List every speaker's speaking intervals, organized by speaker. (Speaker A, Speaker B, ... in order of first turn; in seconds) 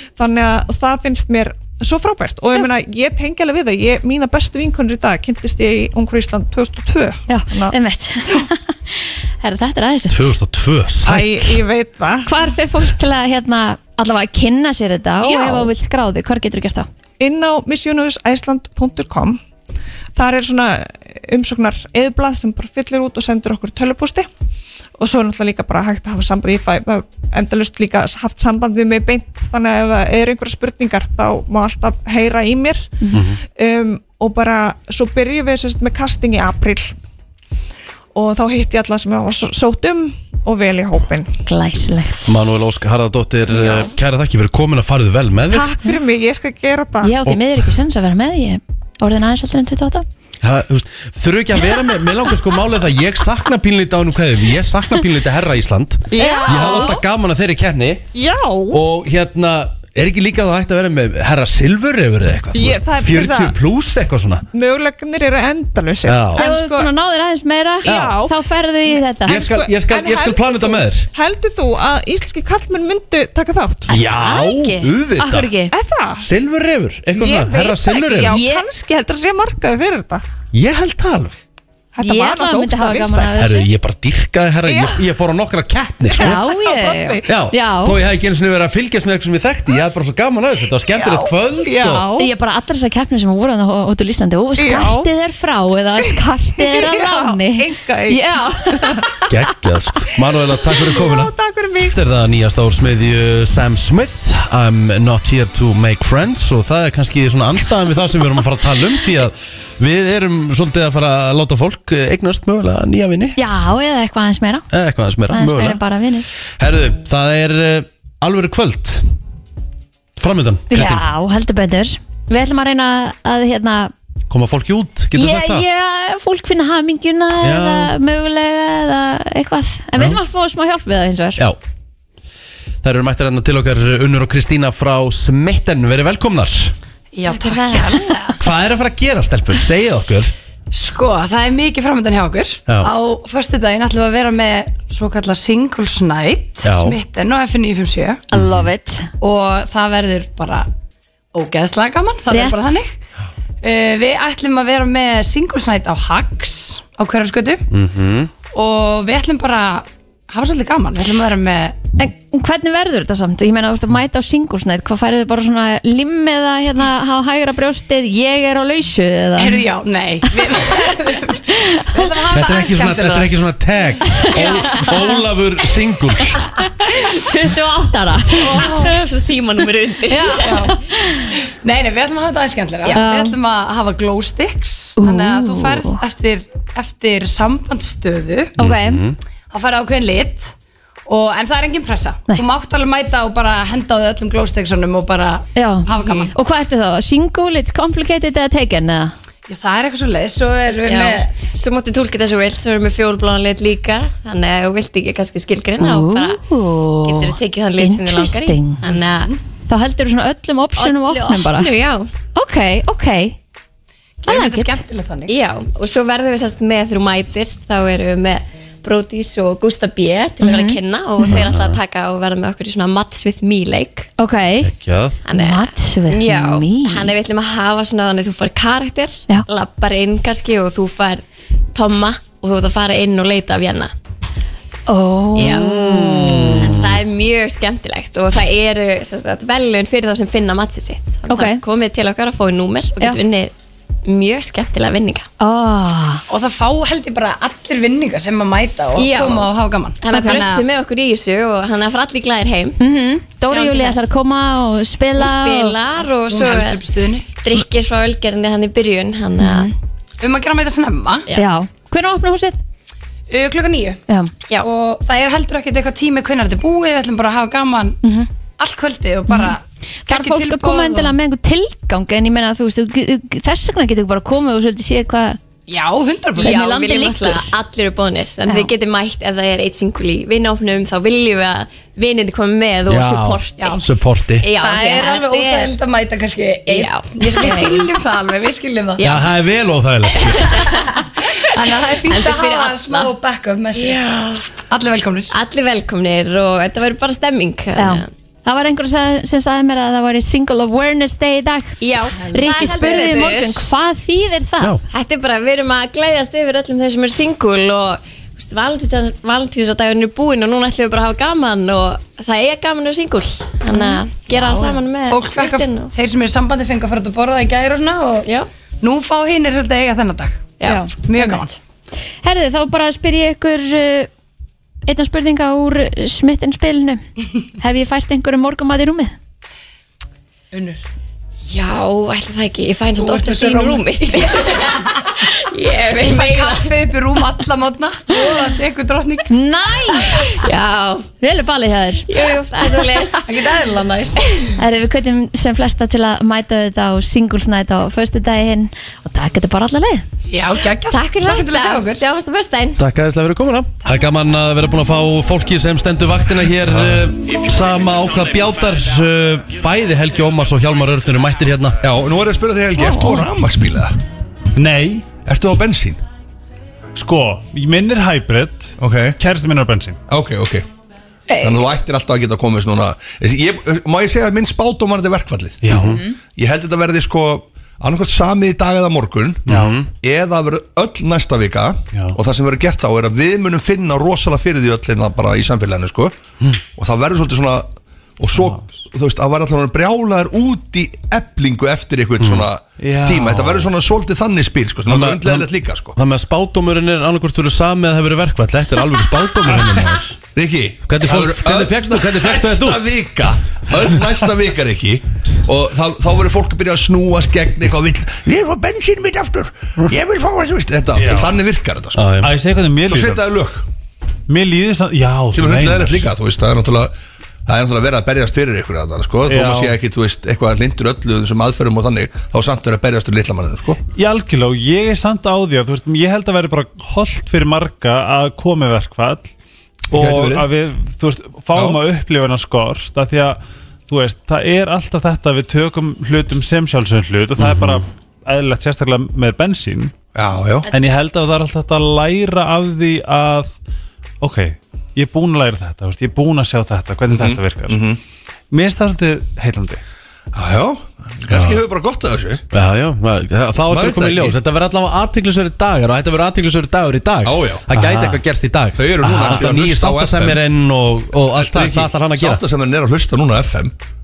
Speaker A: 0.2-7.8, 11.0-12.5, 15.2-15.7, 17.2-19.4, 20.2-24.3, 25.0-37.0, 38.1-41.4, 43.5-43.9, 45.5-47.1, 56.1-57.0, 58.1-58.8, 62.5-63.5, 64.5-66.9, 67.8-68.4, 69.2-74.0, 75.7-76.3, 77.2-80.2, 81.9-83.4, 84.7-85.0, 86.1-87.3, 90.9-92.3, 94.6-95.1, 96.6-99.2, 100.7-102.0
Speaker B: 7.3-10.3, 12.2-16.9, 41.5-42.3, 47.0-50.1, 56.1-57.0, 66.4-69.5, 74.1-75.8, 78.3-78.7, 82.0-83.7, 86.2-88.0, 92.2-99.1, 113.4-114.7, 115.3-116.3, 120.7-123.9, 125.1-131.4, 148.3-149.1, 152.3-152.8, 162.0-169.7, 171.5-172.2, 177.3-178.7, 180.1-181.3, 182.9-183.3, 185.0-186.0, 188.6-189.1, 195.6-199.1, 205.8-208.8, 209.7-211.7, 212.3-213.4, 214.3-214.8, 220.4-221.5, 224.2-224.7, 225.3-227.1, 234.9-236.6, 241.3-241.6, 245.4-246.2, 250.1-250.4, 252.8-255.8, 259.4-259.7, 261.3-262.6, 268.0-268.3, 269.3-269.6, 270.1-275.4, 276.4-277.5, 278.5-278.7, 297.8-304.8, 313.7-314.0, 320.6-321.3, 322.2-324.1, 324.9-329.1, 339.3-340.5, 341.2-342.2, 344.6-350.1, 362.8-363.3, 371.3-371.6
Speaker C: 10.1-11.6, 33.1-33.4, 42.3-45.7, 50.4-58.0, 58.7-64.5, 66.1-66.5, 67.8-68.1, 69.3-71.1, 73.9-75.5, 76.2-78.4, 80.5-81.4, 83.4-86.5, 87.3-92.1, 99.3-101.3, 101.9-113.4, 114.7-115.8, 116.6-119.1, 120.2-121.1, 124.3-125.7, 127.4-127.9, 132.8-136.8, 138.4-140.3, 146.6-147.0, 148.3-148.7, 157.7-158.3, 172.3-176.4, 188.6-189.2, 221.3-221.8, 224.6-225.2, 235.4-237.0, 282.9-284.5, 289.0-290.5, 352.8-361.8, 375.7-376.0, 379.5-379.9, 392.2-392.5, 394.9-400.2, 400.9-403.1, 411.9-412.3, 437.4-437.8, 451.3-451.6, 452.5-462.4
Speaker D: 137.1-138.4, 140.7-148.2, 149.2-150.7, 151.3-153.0, 153.6-157.7, 158.5-161.8, 169.4-173.3, 174.3-174.9, 178.5-179.0, 180.2-180.8, 181.6-188.6, 189.5-190.6, 191.1-196.3, 199.5-201.4, 208.8-209.4, 214.2-215.3, 246.3-250.7, 256.3-257.3, 260.2-261.3, 263.3-264.0, 264.5-268.0, 268.6-271.1, 275.7-276.7, 284.6-289.1, 290.7-294.1, 294.7-295.3, 302.2-303.4, 314.3-318.3, 318.8-321.5, 330.5-330.8, 332.9-335.1, 335.8-339.3, 340.1-340.4, 343.1-344.5, 350.3-352.1
Speaker E: 137.3-138.3, 177.2-177.6, 178.3-180.7, 182.8-183.1, 200.8-206.4, 207.0-209.3, 210.8-212.1, 215.3-224.1, 225.3-233.9, 235.3-243.5, 244.1-245.3, 248.9-249.5, 250.0-252.8, 253.4-254.2, 255.2-259.7, 276.4-283.8, 284.4-285.8, 286.7-287.9, 289.0-289.3, 290.3-290.8, 292.1-293.1, 293.8-294.5, 295.3-298.1, 301.8-303.7, 304.9-315.9, 320.6-321.4, 331.4-337.0, 340.4-341.1, 342.1-343.5, 350.9-352.8
Speaker F: 356.7-357.0, 361.8-364.0, 365.2-366.0, 368.8-369.2, 370.1-370.7, 371.4-386.1, 386.7-396.0, 400.4-412.2, 412.8-413.6, 415.3-416.9, 417.5-423.8, 429.9-430.5, 431.5-431.8, 440.1-440.7, 447.1-448.0, 450.3-452.4, 453.7-454.4, 457.2-458.1, 458.8-460.4, 461.2-463.7
Speaker G: 364.6-365.1, 366.9-370.0, 375.6-376.1, 379.5-379.8, 381.9-382.2, 388.3-388.7, 392.8-393.7, 410.9-411.4, 412.2-413.3, 414.3-416.1, 419.3-419.8, 423.9-429.3, 429.9-439.9, 440.7-443.6, 444.2-447.8, 448.5-449.8, 457.8-458.1, 459.1-459.5